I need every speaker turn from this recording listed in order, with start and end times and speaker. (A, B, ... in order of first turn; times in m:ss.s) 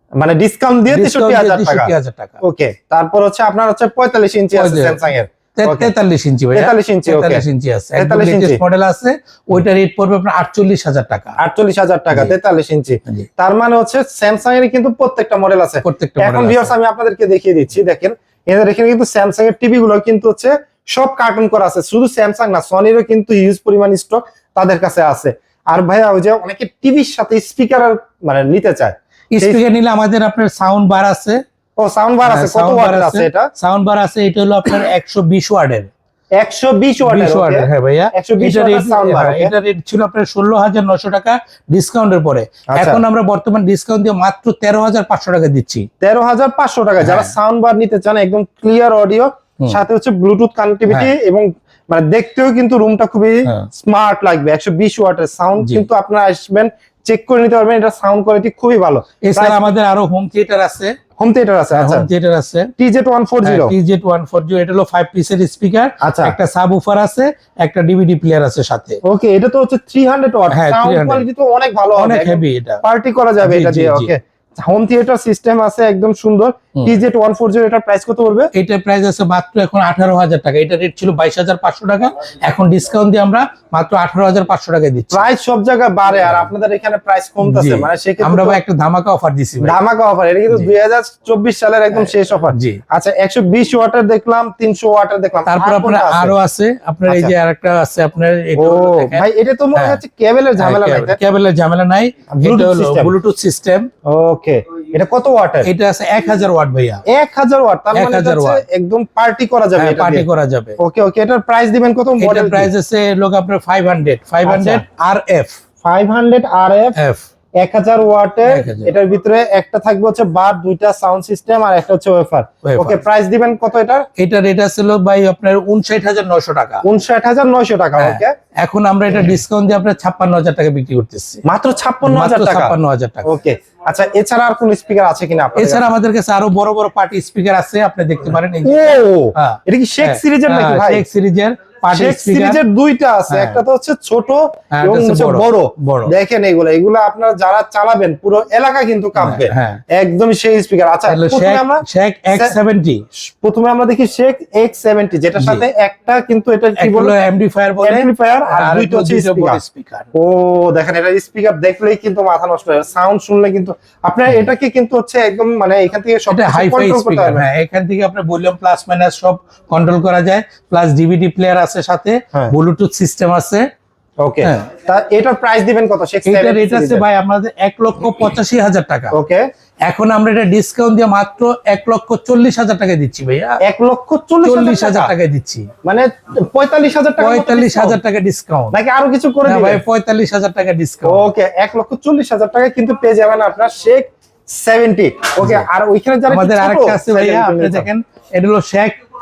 0:00.2-0:01.9 A
0:00.9-0:02.4 B
0:02.4-0:05.9 A
0:04.5-0:05.0 B
0:05.6-0:11.4 B
0:06.5-0:07.4 A
0:08.0-0:08.6 A
0:11.4-0:29.6 A
0:15.8-0:16.7 B
0:29.3-0:31.4 B
0:31.8-0:33.5 A
0:32.2-0:35.9 B
0:36.4-0:39.5 A
0:37.0-0:45.9 B
0:42.7-0:43.0 A
0:46.0-0:59.6 A
0:47.0-0:47.3 B
0:55.6-0:55.9 B
0:59.2-1:01.0 B
1:01.2-1:02.1 A
1:01.7-1:02.7 B
1:02.8-1:03.7 A
1:03.4-1:09.0 B
1:06.0-1:06.4 A
1:09.0-1:18.5 A
1:10.5-1:11.2 B
1:11.9-1:12.8 B
1:13.4-1:14.1 B
1:18.5-1:25.3 B
1:25.1-1:28.6 A
1:26.2-1:26.5 B
1:27.4-1:29.8 B
1:29.6-1:36.3 A
1:31.9-1:32.8 B
1:35.5-1:40.0 B
1:37.1-1:37.3 A
1:38.6-1:41.2 A
1:40.6-1:43.9 B
1:42.3-1:43.1 A
1:44.0-1:45.7 A
1:45.6-1:47.0 B
1:47.0-1:50.2 A
1:47.9-1:48.6 B
1:49.8-1:50.8 B
1:50.8-1:52.7 A
1:52.2-1:55.6 B
1:54.4-1:54.8 A
1:55.8-1:57.0 A
1:57.0-1:57.2 B
1:57.6-2:04.1 A
1:58.5-1:58.9 B
2:02.6-2:03.0 B
2:04.2-2:06.8 B
2:06.8-2:08.3 A
2:08.0-2:11.4 B
2:11.4-2:15.8 A
2:12.0-2:13.3 B
2:15.6-2:22.6 B
2:18.6-2:21.0 A
2:21.9-2:32.6 A
2:23.3-2:23.6 B
2:24.7-2:26.1 B
2:29.2-2:29.8 B
2:31.1-2:33.0 B
2:33.2-2:37.1 A
2:35.4-2:35.6 B
2:36.8-2:40.1 B
2:37.8-2:39.6 A
2:40.1-2:47.4 A
2:46.3-2:53.6 B
2:54.2-2:57.0 A
2:56.2-2:59.1 B
2:59.1-2:59.4 A
2:59.8-3:03.6 B
3:03.6-3:05.1 A
3:04.4-3:05.7 B
3:05.8-3:08.0 A
3:07.2-3:08.7 B
3:08.7-3:09.8 A
3:09.4-3:11.3 B
3:11.0-3:17.9 A
3:15.4-3:15.6 B
3:16.3-3:19.0 B